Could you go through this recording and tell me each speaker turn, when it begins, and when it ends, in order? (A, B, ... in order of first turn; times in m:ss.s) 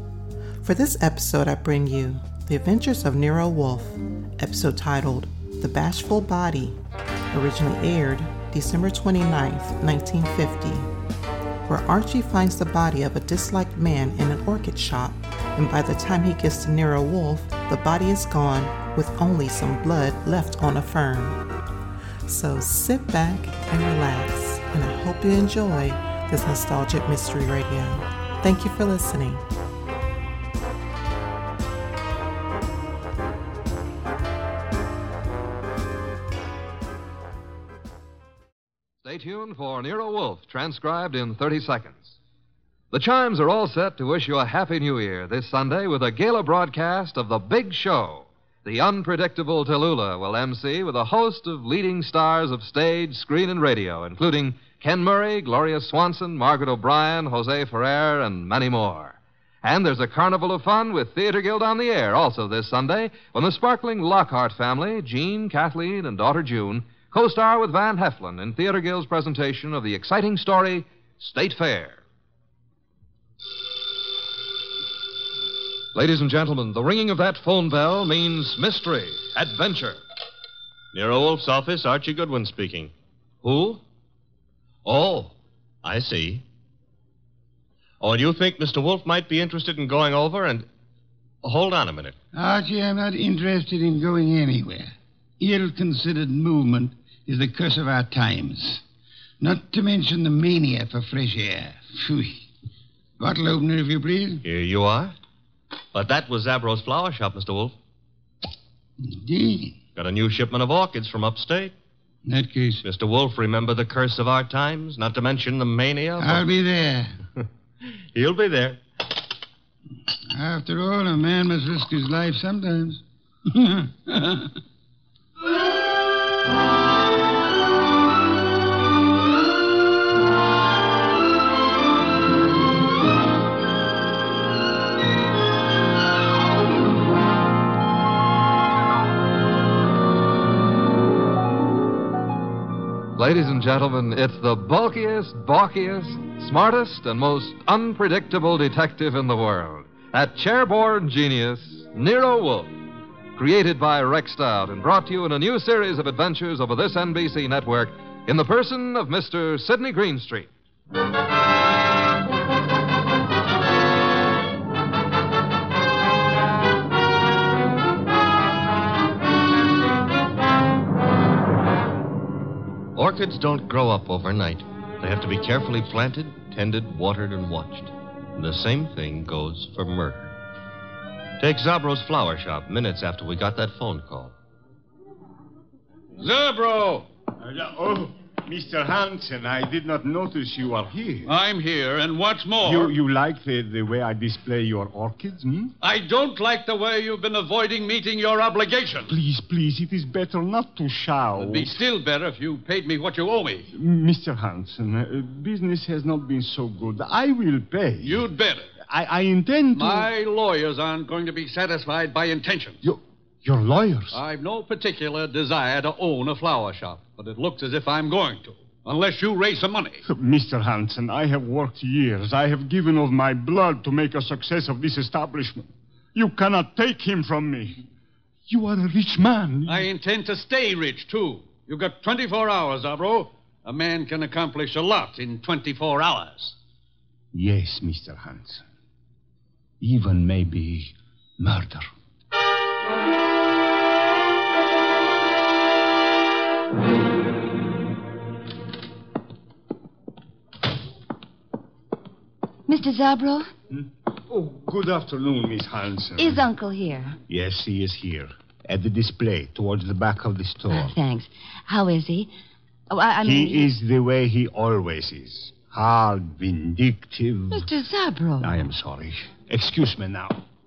0:00.6-0:06.8 A
0:07.3-0:10.9 A
0:11.6-0:21.4 A
0:22.2-0:29.4 A
0:39.0-0:42.2 B
0:42.9-1:12.0 B
1:15.9-1:20.0 B
1:20.9-1:22.9 C
1:23.4-1:23.8 C
1:24.8-1:26.4 C
1:28.0-1:30.6 C
1:31.4-1:32.2 C
1:32.3-1:38.8 D
1:39.4-1:42.4 D
1:43.2-1:44.4 D
1:44.4-1:45.1 C
1:45.9-1:47.7 C
1:49.0-1:49.8 D
1:50.0-1:51.7 C
1:52.2-1:52.8 D
1:52.8-1:56.4 C
1:56.2-1:57.1 D
1:57.4-1:58.8 C
2:00.3-2:04.5 D
2:23.2-2:32.8 B
2:33.4-2:40.5 B
2:52.9-3:00.3 C
3:01.4-3:04.3 C
3:06.2-3:11.3 E
3:11.2-3:12.9 F
3:12.6-3:15.7 E
3:15.8-3:19.1 F
3:19.1-3:21.8 E
3:21.4-3:23.7 F
3:23.7-3:28.3 E
3:28.0-3:28.7 F
3:28.8-3:30.1 E
3:29.7-3:32.8 F
3:32.8-3:34.2 E
3:34.1-3:40.0 F
3:40.1-3:47.8 E
3:48.5-3:49.9 E
3:49.7-3:56.5 F
3:57.3-3:58.6 E
3:59.8-4:01.9 E
4:12.7-4:13.5 G
4:13.7-4:16.4 E
4:16.2-4:17.2 G
4:17.3-4:20.9 E
4:20.7-4:22.3 G
4:22.9-4:23.7 G
4:23.2-4:27.7 E
4:27.5-4:28.5 G
4:28.4-4:30.4 E